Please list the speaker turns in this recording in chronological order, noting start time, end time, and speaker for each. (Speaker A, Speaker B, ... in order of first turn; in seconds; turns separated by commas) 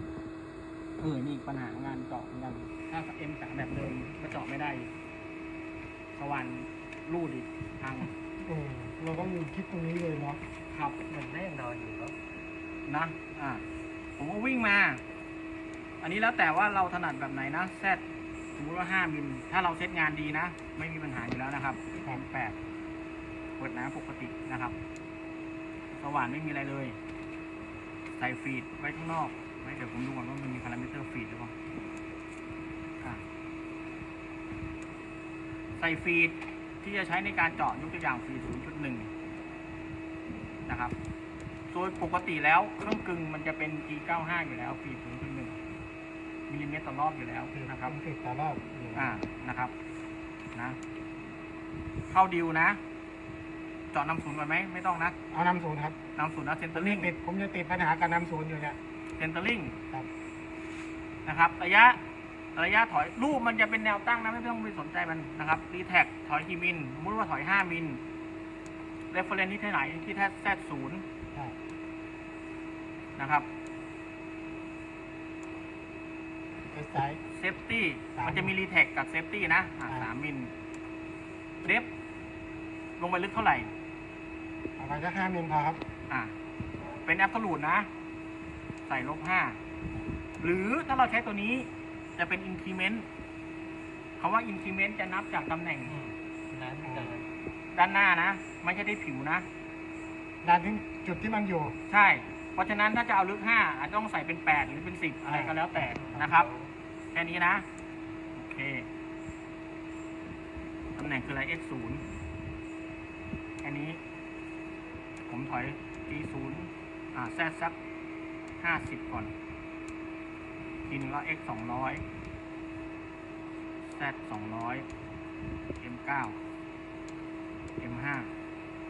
Speaker A: 1.0-4.9, Speaker A: 6.1-8.1, Speaker B: 8.4-10.4, Speaker A: 10.7-11.0, Speaker C: 11.1-12.2, Speaker A: 12.8-13.6, Speaker A: 14.2-15.0, Speaker A: 16.0-18.0, Speaker A: 18.6-22.6, Speaker A: 23.6-24.8, Speaker A: 25.9-27.0, Speaker A: 28.1-31.5, Speaker A: 35.8-39.1, Speaker A: 40.7-41.0, Speaker A: 41.7-45.6, Speaker A: 46.5-48.0, Speaker B: 47.5-49.2, Speaker A: 48.9-49.7, Speaker A: 52.1-52.8, Speaker A: 53.9-55.2, Speaker B: 55.3-56.0, Speaker A: 56.1-57.1, Speaker B: 56.8-58.8, Speaker A: 59.2-59.8, Speaker A: 61.2-62.0, Speaker A: 62.5-68.0, Speaker A: 69.1-71.0, Speaker A: 73.2-73.5, Speaker B: 76.7-77.2, Speaker A: 77.3-80.5, Speaker B: 78.2-78.5, Speaker A: 81.6-81.9, Speaker A: 83.0-83.7, Speaker B: 84.8-85.8, Speaker A: 86.1-86.3, Speaker A: 87.0-87.9, Speaker A: 88.9-89.6, Speaker A: 90.4-93.1, Speaker A: 94.2-96.0, Speaker C: 95.9-97.2, Speaker B: 96.8-97.2, Speaker A: 97.7-99.5, Speaker B: 100.4-101.8, Speaker A: 101.9-106.5, Speaker B: 105.3-105.7, Speaker C: 105.7-106.7, Speaker A: 107.1-107.7, Speaker A: 108.3-108.9, Speaker A: 111.0-112.0, Speaker A: 113.6-114.0, Speaker A: 115.2-117.8, Speaker A: 118.6-119.3, Speaker A: 120.9-122.0, Speaker A: 123.9-124.9, Speaker A: 125.8-126.4, Speaker A: 127.8-128.3